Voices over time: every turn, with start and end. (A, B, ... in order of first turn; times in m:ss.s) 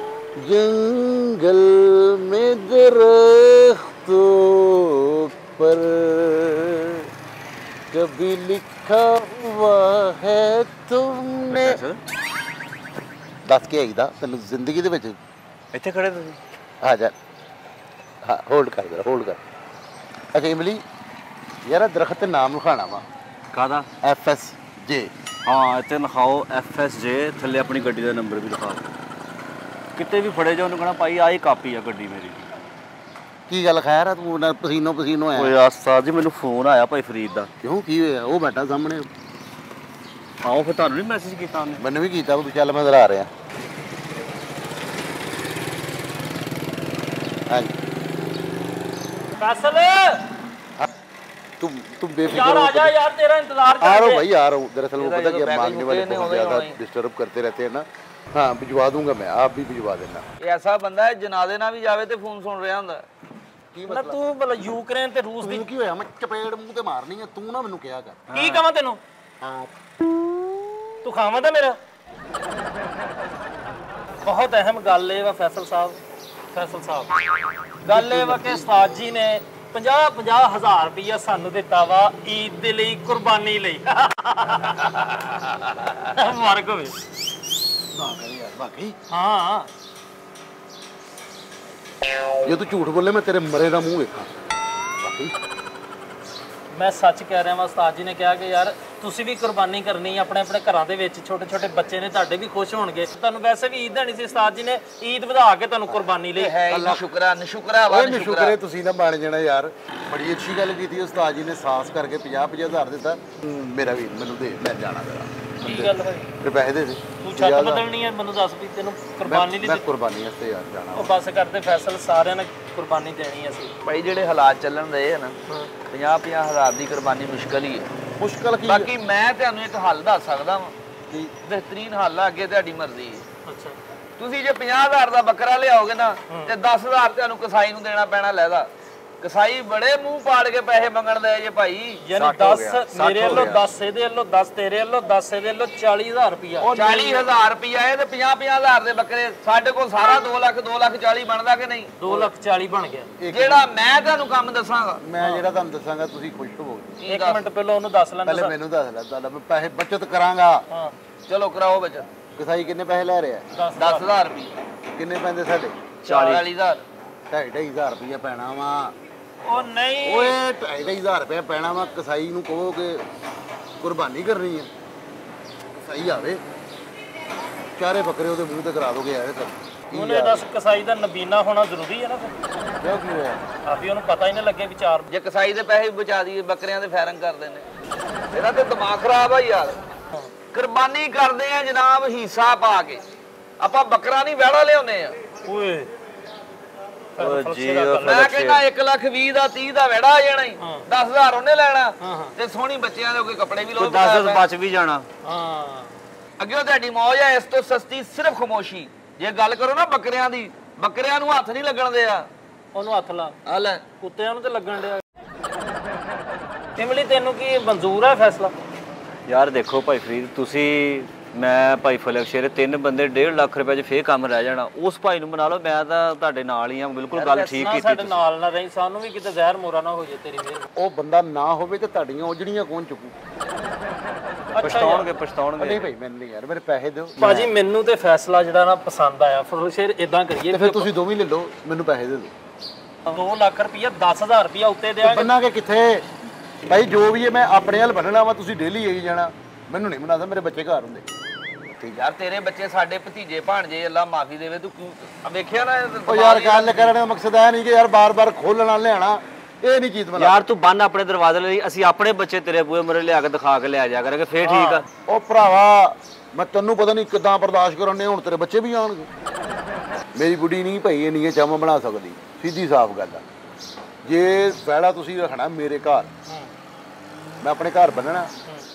0:00.4-0:07.0 A
0:07.9-0:11.8 A
0:11.5-0:12.0 B
0:13.5-0:15.2 A
0:15.7-0:16.4 B
0:16.8-0:17.1 A
0:18.2-0:19.4 A
0:20.3-0:20.8 A
0:21.7-0:23.0 A
0:23.5-0:23.9 B
0:24.0-0:25.1 A
0:25.5-0:28.9 B
0:30.0-0:32.5 B
0:33.5-0:35.6 A
0:35.4-0:37.5 B
0:37.6-0:39.1 A
0:40.4-0:41.8 B
0:41.8-0:43.3 A
0:47.5-0:47.8 A
0:49.4-0:50.4 C
0:51.6-0:53.0 A
0:52.2-0:54.3 C
0:53.8-1:00.3 A
0:55.0-0:56.8 D
1:00.4-1:03.0 D
1:03.7-1:04.2 A
1:03.9-1:05.7 C
1:05.4-1:08.3 A
1:08.3-1:09.0 C
1:09.4-1:09.8 A
1:11.0-1:11.8 C
1:14.2-1:16.0 C
1:16.5-1:17.2 C
1:17.8-1:18.7 A
1:17.8-1:25.2 C
1:25.9-1:27.0 C
1:27.9-1:29.0 A
1:29.1-1:29.7 C
1:32.4-1:34.3 A
1:35.0-1:35.3 A
1:36.7-1:46.6 C
1:46.3-1:48.6 D
1:46.7-1:47.0 A
1:47.9-1:57.9 A
1:55.6-1:56.3 C
1:57.2-1:59.8 C
1:59.2-2:01.1 A
2:01.0-2:03.7 C
2:03.8-2:05.4 D
2:05.9-2:07.9 D
2:08.2-2:08.9 A
2:08.6-2:10.7 D
2:11.4-2:13.2 D
2:13.5-2:13.8 C
2:14.2-2:18.7 D
2:19.2-2:22.0 D
2:22.0-2:26.7 C
2:22.2-2:23.5 B
2:23.0-2:23.6 A
2:26.7-2:32.3 D
2:32.0-2:33.1 C
2:33.2-2:33.7 A
2:33.3-2:35.0 D
2:35.0-2:37.0 A
2:37.0-2:37.4 D
2:37.1-2:38.6 C
2:38.2-2:40.6 A
2:40.7-2:41.0 C
2:41.3-2:42.1 D
2:42.4-2:43.5 A
2:43.5-2:44.1 C
2:43.8-2:44.6 D
2:45.0-2:45.8 A
2:46.0-2:46.4 C
2:46.0-2:46.5 B
2:46.2-2:46.9 D
2:47.3-2:49.0 A
2:49.4-2:50.4 C
2:50.0-2:53.0 A
2:53.8-2:54.7 A
2:55.7-2:56.4 A
2:57.8-3:00.4 A
2:59.9-3:02.3 C
3:02.8-3:03.4 A
3:03.6-3:05.1 C
3:05.1-3:07.7 D
3:08.3-3:09.8 D
3:10.5-3:13.0 D
3:13.6-3:15.2 D
3:15.4-3:15.9 C
3:17.2-3:18.3 C
3:17.2-3:18.7 B
3:18.0-3:24.5 D
3:20.6-3:20.8 C
3:22.0-3:22.3 C
3:23.8-3:25.1 B
3:25.2-3:26.0 C
3:26.4-3:32.3 D
3:32.7-3:33.4 C
3:33.5-3:33.8 D
3:34.0-3:35.0 C
3:36.8-3:38.5 C
3:39.3-3:48.2 B
3:47.1-3:47.6 D
3:47.6-3:50.7 C
3:50.8-3:53.1 A
3:54.5-3:55.9 B
3:54.5-3:55.1 C
3:55.6-3:57.5 A
3:57.2-4:00.9 C
4:00.5-4:02.3 A
4:03.1-4:05.3 C
4:05.0-4:06.0 A
4:06.7-4:11.1 A
4:11.9-4:16.9 D
4:16.1-4:20.5 A
4:20.2-4:24.9 B
4:24.6-4:29.1 A
4:30.2-4:33.2 A
4:34.0-4:36.1 A
4:37.4-4:38.3 A